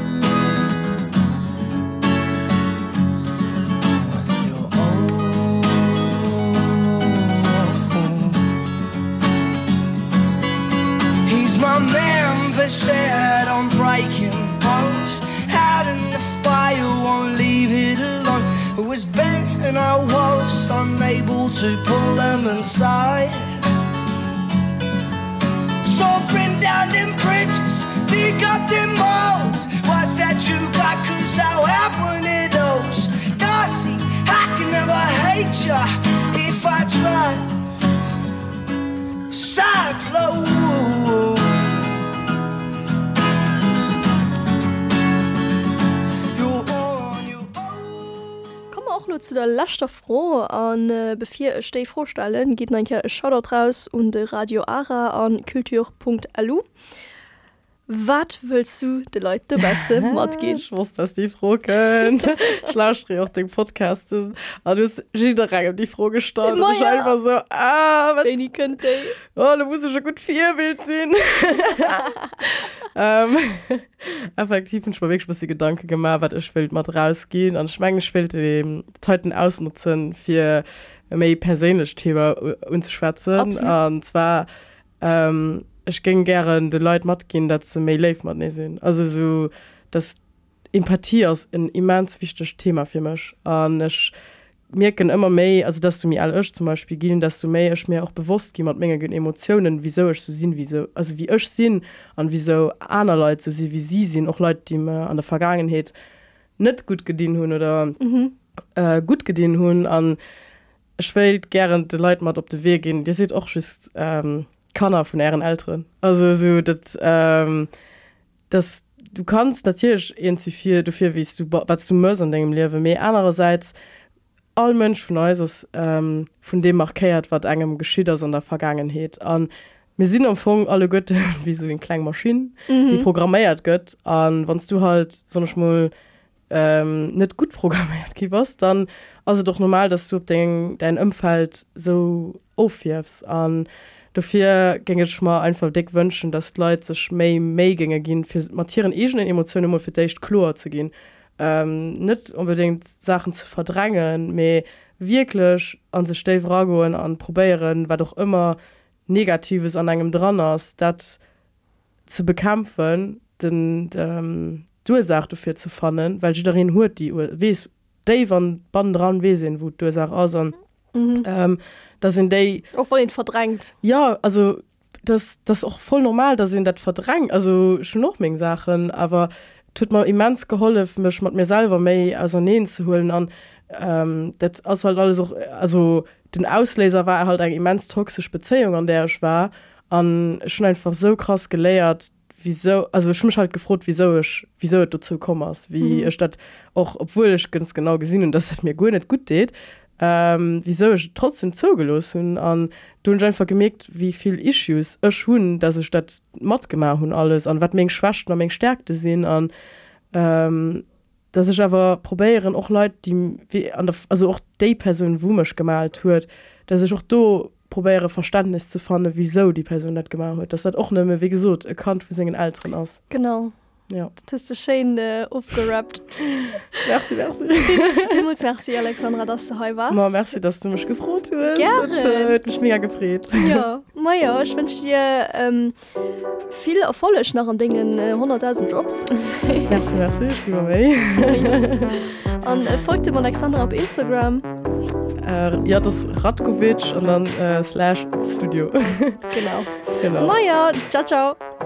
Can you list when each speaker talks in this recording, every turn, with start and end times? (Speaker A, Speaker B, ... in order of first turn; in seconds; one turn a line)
Speaker A: 4.0-8.4
Speaker A: 11.3-23.3
Speaker A: 25.8-37.5
Speaker A: 39.3-41.4
Speaker A: 46.4-48.3
Speaker B: 48.7-56.7
Speaker B: 57.9-60.6
Speaker C: 59.7-68.3
Speaker B: 66.5-67.1
Speaker B: 68.2-69.2
Speaker C: 69.3-84.5
Speaker B: 83.4-83.8
Speaker C: 85.0-90.2
Speaker C: 90.7-94.1
Speaker C: 94.7-105.9
Speaker C: 106.6-108.0
Speaker B: 108.0-108.3
Speaker C: 108.8-110.2
Speaker C: 111.0-117.7
Speaker C: 118.5-123.8
Speaker C: 124.6-135.9
Speaker B: 132.7-133.1
Speaker C: 136.5-158.6
Speaker C: 159.1-161.2
Speaker C: 162.1-170.6
Speaker B: 170.9-171.3
Speaker C: 171.2-172.7
Speaker B: 172.7-173.7
Speaker C: 173.8-209.5
Speaker B: 195.8-196.1
Speaker C: 210.1-223.0
Speaker B: 223.1-223.5
Speaker B: 224.3-226.8
Speaker C: 226.8-228.2
Speaker B: 227.6-230.3
Speaker C: 229.9-233.6
Speaker B: 231.5-232.4
Speaker B: 233.4-235.8
Speaker B: 236.5-239.8
Speaker C: 239.7-242.0
Speaker B: 241.2-244.5
Speaker C: 245.2-249.3
Speaker B: 249.3-251.4
Speaker C: 250.0-250.3